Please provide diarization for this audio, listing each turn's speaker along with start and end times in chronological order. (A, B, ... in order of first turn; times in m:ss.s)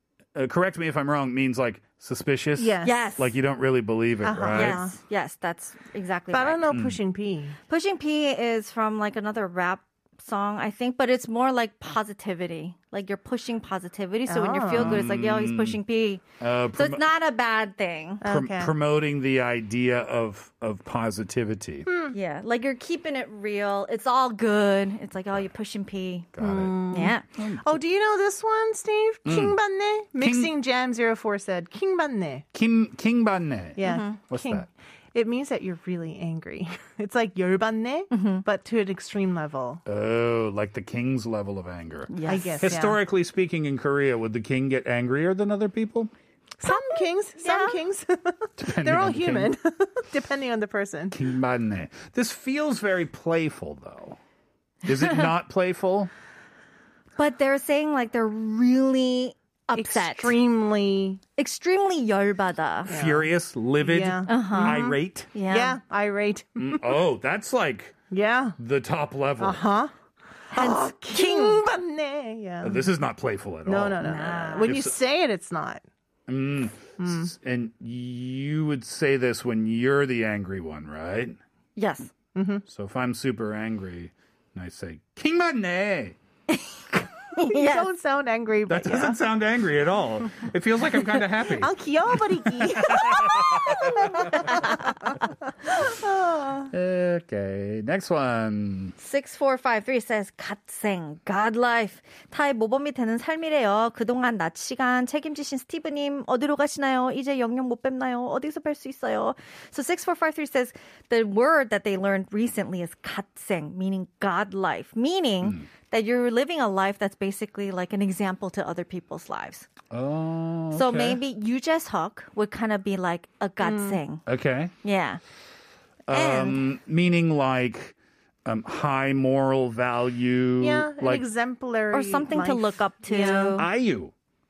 0:00.4-0:04.9 A
0:02.6-0:03.0 B
0:02.8-0:03.3 C
0:04.2-0:04.9 B
0:04.5-0:06.6 C
0:06.3-0:07.6 B
0:06.7-0:07.0 A
0:07.7-0:16.2 C
0:14.3-0:15.0 B
0:14.7-0:15.8 A
0:16.4-0:17.0 A
0:16.8-0:18.2 C
0:18.2-0:18.7 B
0:18.2-0:21.9 A
0:22.1-0:26.3 C
0:26.3-0:27.8 A
0:26.4-0:27.1 B
0:26.9-0:27.2 C
0:27.7-0:32.4 B
0:29.2-0:29.6 A
0:30.1-0:30.6 A
0:32.5-0:34.7 A
0:33.8-0:39.8 B
0:33.9-0:34.2 C
0:38.1-0:38.4 C
0:39.9-0:46.1 A
0:42.1-0:42.8 C
0:42.3-0:43.0 B
0:46.6-0:51.1 B
0:46.7-0:47.8 C
0:48.6-0:49.6 A
0:51.1-0:54.2 A
0:54.8-0:56.1 A
0:57.2-1:00.3 C
0:59.8-1:01.2 B
1:01.4-1:02.9 C
1:02.9-1:03.3 B
1:02.9-1:05.3 A
1:03.8-1:05.0 B
1:04.3-1:04.8 C
1:05.3-1:05.8 C
1:05.5-1:06.9 B
1:06.6-1:08.0 A
1:08.1-1:08.6 B
1:08.6-1:09.7 A
1:09.4-1:09.9 B
1:10.5-1:11.6 C
1:10.6-1:12.8 B
1:12.6-1:15.0 A
1:13.7-1:15.8 B
1:14.0-1:14.7 C
1:16.3-1:21.4 A
1:17.0-1:17.3 B
1:21.8-1:22.1 C
1:22.4-1:22.6 B
1:22.7-1:26.2 A
1:26.5-1:27.9 C
1:27.4-1:29.2 B
1:28.7-1:34.7 A
1:31.5-1:33.4 B
1:34.3-1:34.8 C
1:36.1-1:36.4 B
1:36.7-1:39.0 A
1:39.0-1:59.7 C
1:59.9-2:01.2 A
2:00.7-2:04.2 C
2:03.6-2:04.0 B
2:04.3-2:04.7 A
2:04.8-2:05.2 C
2:06.1-2:08.0 A
2:06.1-2:06.6 C
2:08.5-2:11.3 A
2:10.6-2:13.5 B
2:11.9-2:13.7 C
2:13.5-2:14.1 A